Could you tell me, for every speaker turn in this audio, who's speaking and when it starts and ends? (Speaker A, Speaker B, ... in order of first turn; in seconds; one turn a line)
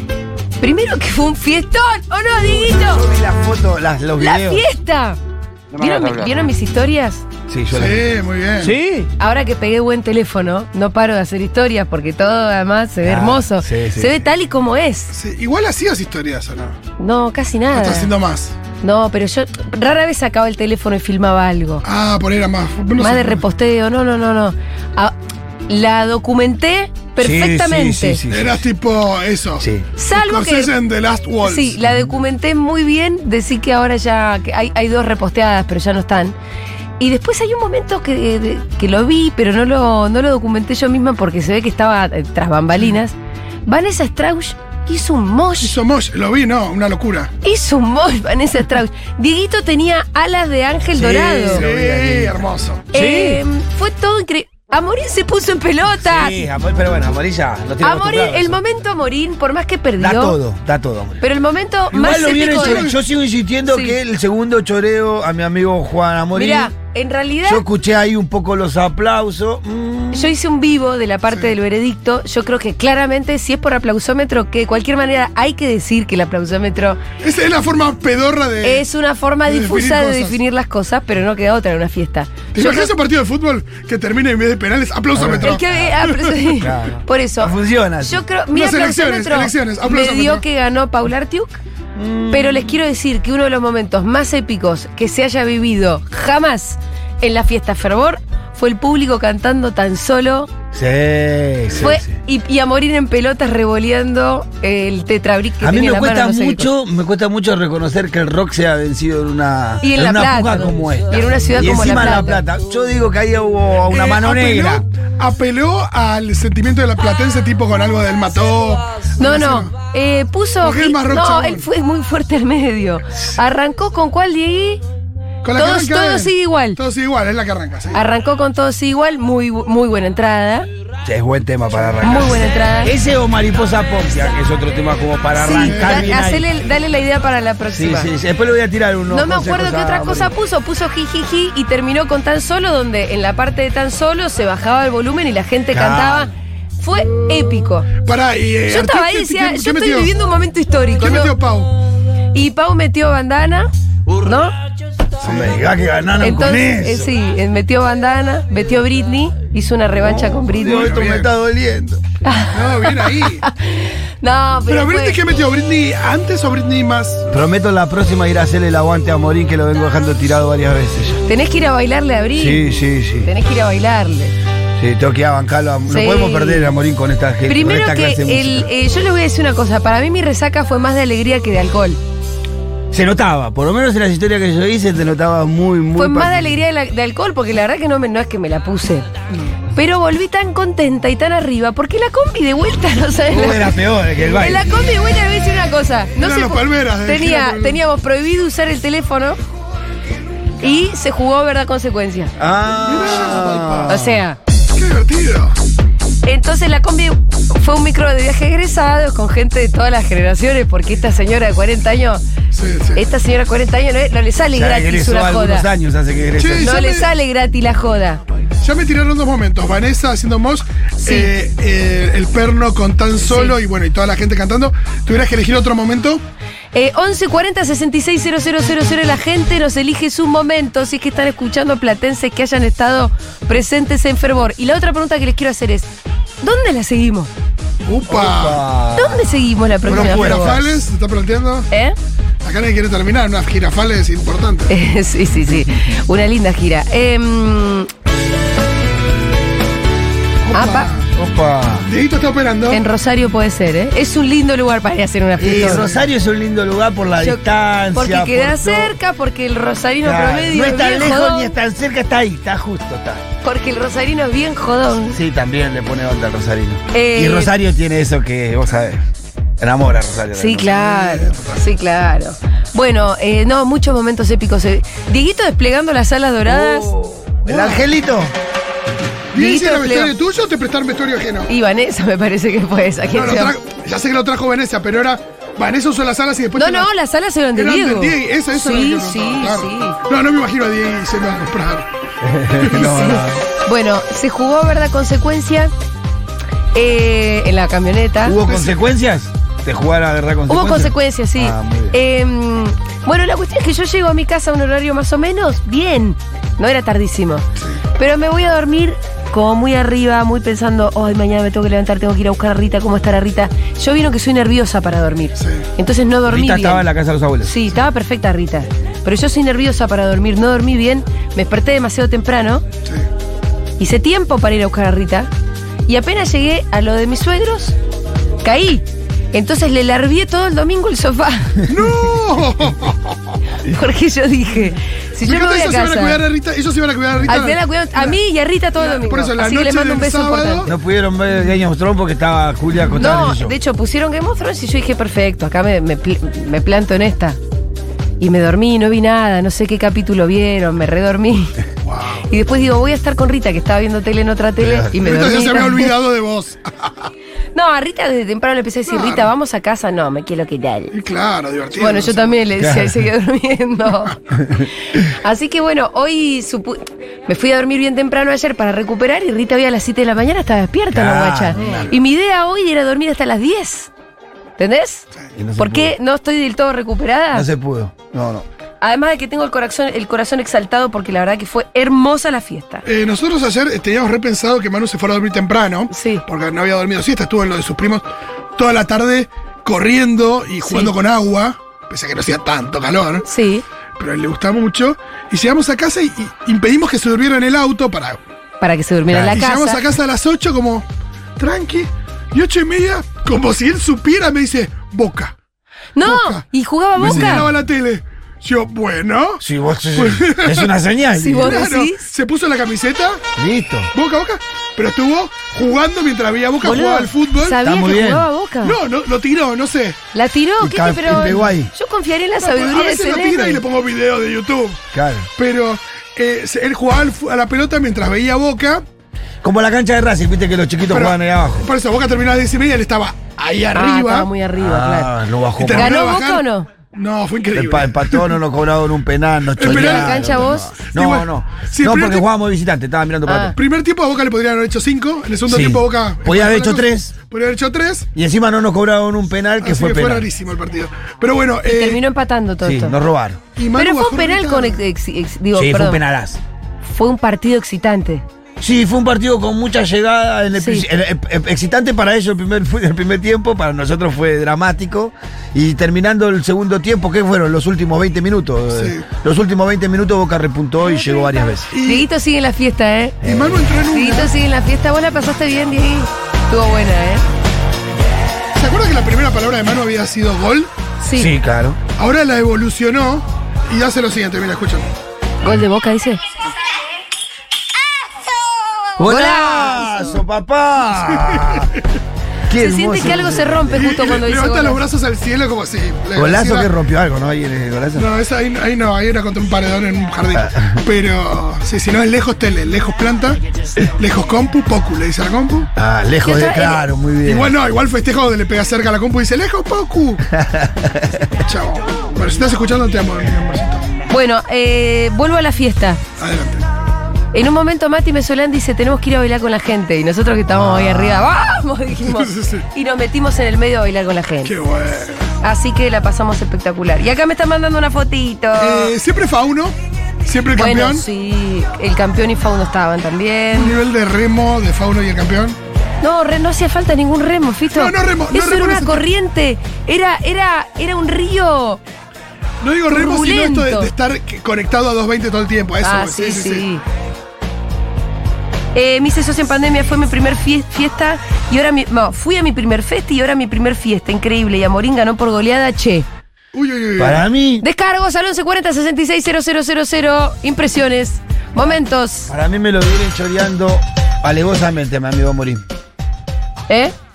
Speaker A: 0.6-3.0
Speaker B: 2.5-4.6
Speaker A: 4.2-5.2
Speaker B: 5.7-6.4
Speaker A: 5.8-7.2
Speaker B: 7.5-8.0
Speaker C: 7.7-8.8
Speaker B: 8.6-9.1
Speaker A: 9.2-15.1
Speaker B: 13.0-14.2
Speaker C: 15.1-16.8
Speaker A: 17.0-18.1
Speaker C: 17.7-18.5
Speaker A: 18.8-21.8
Speaker C: 21.8-23.4
Speaker A: 23.0-25.1
Speaker A: 25.7-28.2
Speaker B: 27.2-28.6
Speaker C: 28.3-31.8
Speaker B: 29.6-29.9
Speaker A: 29.9-30.7
Speaker A: 31.4-36.4
Speaker A: 37.0-43.1
Speaker A: 43.6-45.7
Speaker C: 45.6-47.3
Speaker A: 47.4-51.6
Speaker B: 50.9-53.3
Speaker C: 51.4-52.9
Speaker A: 52.9-56.4
Speaker B: 56.0-58.6
Speaker A: 57.8-60.4
Speaker B: 60.0-61.2
Speaker A: 61.2-62.9
Speaker B: 61.9-66.7
Speaker C: 62.0-63.0
Speaker A: 63.7-64.0
Speaker A: 66.3-67.6
Speaker B: 67.4-70.3
Speaker A: 70.1-77.0
Speaker C: 77.2-78.8
Speaker A: 78.6-82.9
Speaker C: 79.5-80.4
Speaker C: 82.5-86.4
Speaker B: 85.1-86.0
Speaker A: 85.4-91.6
Speaker B: 86.5-88.2
Speaker C: 88.5-90.4
Speaker B: 91.9-92.8
Speaker A: 92.3-100.5
Speaker B: 100.7-102.2
Speaker A: 101.8-106.7
Speaker B: 105.6-114.8
Speaker A: 109.8-112.4
Speaker C: 113.9-119.7
Speaker A: 119.2-124.8
Speaker C: 120.6-121.7
Speaker C: 125.4-128.0
Speaker A: 125.6-126.8
Speaker A: 127.9-130.7
Speaker B: 131.0-136.5
Speaker A: 132.0-132.9
Speaker A: 135.3-138.1
Speaker C: 135.6-136.2
Speaker B: 137.7-140.3
Speaker A: 139.1-147.9
Speaker B: 145.7-146.3
Speaker C: 148.0-150.1
Speaker A: 148.7-151.3
Speaker C: 151.0-151.7
Speaker A: 152.3-153.7
Speaker A: 154.2-154.5
Speaker C: 155.2-155.5
Speaker B: 155.2-157.1
Speaker A: 156.2-160.9
Speaker B: 160.0-162.0
Speaker C: 160.6-161.3
Speaker A: 162.2-165.2
Speaker C: 162.5-163.4
Speaker C: 164.7-167.2
Speaker B: 167.3-171.2
Speaker A: 171.3-172.7
Speaker B: 172.3-173.3
Speaker A: 173.2-174.3
Speaker B: 174.8-178.7
Speaker A: 175.9-176.7
Speaker A: 177.4-182.0
Speaker B: 182.9-186.6
Speaker A: 185.9-189.1
Speaker A: 189.7-199.4
Speaker B: 193.3-194.7
Speaker C: 196.2-197.8
Speaker A: 200.6-202.3
Speaker B: 202.4-204.2
Speaker C: 202.8-204.0
Speaker A: 203.9-204.4
Speaker C: 204.7-205.6
Speaker A: 206.2-212.2
Speaker C: 212.5-213.1
Speaker A: 212.9-215.7
Speaker B: 214.5-216.8
Speaker C: 216.4-217.1
Speaker A: 216.6-218.2
Speaker C: 218.6-226.2
Speaker A: 221.0-221.3
Speaker A: 223.3-223.6
Speaker A: 226.7-237.3
Speaker C: 237.8-238.6
Speaker B: 238.1-240.6
Speaker A: 238.9-240.6
Speaker C: 239.8-241.7
Speaker A: 241.7-241.9
Speaker C: 242.4-244.7
Speaker A: 244.7-247.9
Speaker C: 250.4-251.1
Speaker A: 250.5-250.9
Speaker B: 251.1-251.9
Speaker C: 251.8-252.8
Speaker A: 252.7-255.8
Speaker B: 255.4-258.9
Speaker C: 255.4-256.0
Speaker A: 257.2-261.5
Speaker B: 260.0-263.2
Speaker A: 263.4-265.2
Speaker B: 265.1-269.0
Speaker A: 266.9-267.5
Speaker B: 269.6-270.8
Speaker A: 270.4-276.9
Speaker C: 270.7-271.6
Speaker B: 276.4-278.3
Speaker C: 277.4-277.9
Speaker C: 279.3-281.5
Speaker A: 279.3-280.1
Speaker A: 281.5-283.5
Speaker C: 283.1-286.9
Speaker A: 286.6-290.0
Speaker C: 287.5-291.9
Speaker B: 292.2-293.4
Speaker C: 292.6-293.0
Speaker A: 292.7-295.7
Speaker A: 296.7-298.4
Speaker B: 298.2-302.0
Speaker C: 298.4-298.8
Speaker A: 300.5-307.4
Speaker A: 308.0-316.8
Speaker C: 315.4-315.6
Speaker B: 316.3-317.7
Speaker A: 317.4-322.6
Speaker A: 323.8-325.3
Speaker A: 325.9-327.7
Speaker A: 328.4-331.6
Speaker C: 331.7-333.2
Speaker A: 333.6-336.2
Speaker C: 335.2-338.2
Speaker A: 337.3-340.7
Speaker C: 338.8-340.7
Speaker B: 340.6-343.6
Speaker A: 342.9-347.4
Speaker A: 348.2-351.5
Speaker C: 351.8-352.2
Speaker A: 352.3-355.9
Speaker B: 354.6-354.9
Speaker C: 355.0-357.1
Speaker A: 357.5-360.9
Speaker C: 358.9-359.3
Speaker C: 360.9-362.4
Speaker A: 361.8-364.2
Speaker B: 362.6-363.0
Speaker B: 364.3-364.7
Speaker A: 365.2-373.9
Speaker B: 370.9-371.9
Speaker C: 371.6-371.9
Speaker A: 374.6-375.1
Speaker B: 375.3-375.9
Speaker A: 375.6-377.5
Speaker B: 377.3-378.4
Speaker A: 378.8-382.8
Speaker C: 382.9-388.0
Speaker A: 385.9-386.2
Speaker C: 388.6-393.3
Speaker A: 390.6-390.9
Speaker A: 393.2-393.6
Speaker C: 394.0-398.2
Speaker A: 398.6-399.8
Speaker B: 399.1-399.3
Speaker C: 399.1-400.8
Speaker C: 401.4-405.3
Speaker A: 405.9-407.4
Speaker C: 406.0-410.7
Speaker B: 407.0-407.4
Speaker B: 409.4-411.6
Speaker A: 411.1-412.1
Speaker C: 411.3-413.2
Speaker B: 413.4-413.9
Speaker C: 413.9-417.6
Speaker A: 416.6-418.8
Speaker B: 417.6-418.3
Speaker C: 418.6-420.0
Speaker A: 420.1-423.6
Speaker B: 420.6-421.7
Speaker C: 422.4-424.8
Speaker B: 424.9-425.3
Speaker C: 425.4-428.8
Speaker B: 429.4-431.7
Speaker C: 430.9-434.3
Speaker A: 433.7-435.1
Speaker B: 434.6-436.0
Speaker C: 435.6-438.3
Speaker A: 435.7-436.7
Speaker B: 437.5-443.6
Speaker C: 439.6-442.2
Speaker A: 439.6-440.7
Speaker A: 443.2-443.6
Speaker C: 443.5-448.1
Speaker B: 445.4-447.1
Speaker B: 448.1-450.3
Speaker C: 449.6-452.0
Speaker A: 451.6-452.9
Speaker B: 452.6-453.4
Speaker C: 453.6-454.8
Speaker A: 453.8-456.0
Speaker B: 455.5-456.4
Speaker A: 456.8-458.2
Speaker B: 458.6-471.7
Speaker A: 460.6-460.9
Speaker C: 468.7-469.0
Speaker A: 470.8-473.2
Speaker C: 471.7-472.1
Speaker B: 473.2-473.6
Speaker C: 473.2-474.3
Speaker A: 473.9-477.2
Speaker C: 478.5-480.7
Speaker A: 481.0-481.3
Speaker B: 481.1-481.8
Speaker C: 482.0-484.9
Speaker A: 485.4-486.2
Speaker B: 489.0-491.7
Speaker A: 489.0-490.2
Speaker C: 491.2-491.8
Speaker B: 492.5-493.9
Speaker A: 492.5-494.8
Speaker C: 493.7-496.7
Speaker B: 496.1-498.1
Speaker C: 497.9-503.4
Speaker B: 500.4-500.8
Speaker C: 504.0-505.7
Speaker B: 505.8-507.5
Speaker A: 506.2-506.8
Speaker C: 507.2-510.2
Speaker B: 510.3-511.3
Speaker C: 511.4-513.9
Speaker A: 514.1-516.0
Speaker C: 516.2-516.6
Speaker A: 517.3-524.5
Speaker B: 520.5-521.3
Speaker C: 522.0-522.6
Speaker C: 524.4-525.3
Speaker A: 525.4-528.9
Speaker C: 528.6-531.0
Speaker A: 530.5-533.8
Speaker C: 533.5-535.6
Speaker A: 536.0-541.8
Speaker C: 537.7-539.0
Speaker C: 542.6-546.6
Speaker A: 542.9-543.9
Speaker A: 545.8-546.8
Speaker A: 548.7-556.1
Speaker C: 556.5-557.2
Speaker B: 557.0-557.6
Speaker A: 557.6-562.3
Speaker B: 562.3-565.6
Speaker A: 566.7-566.9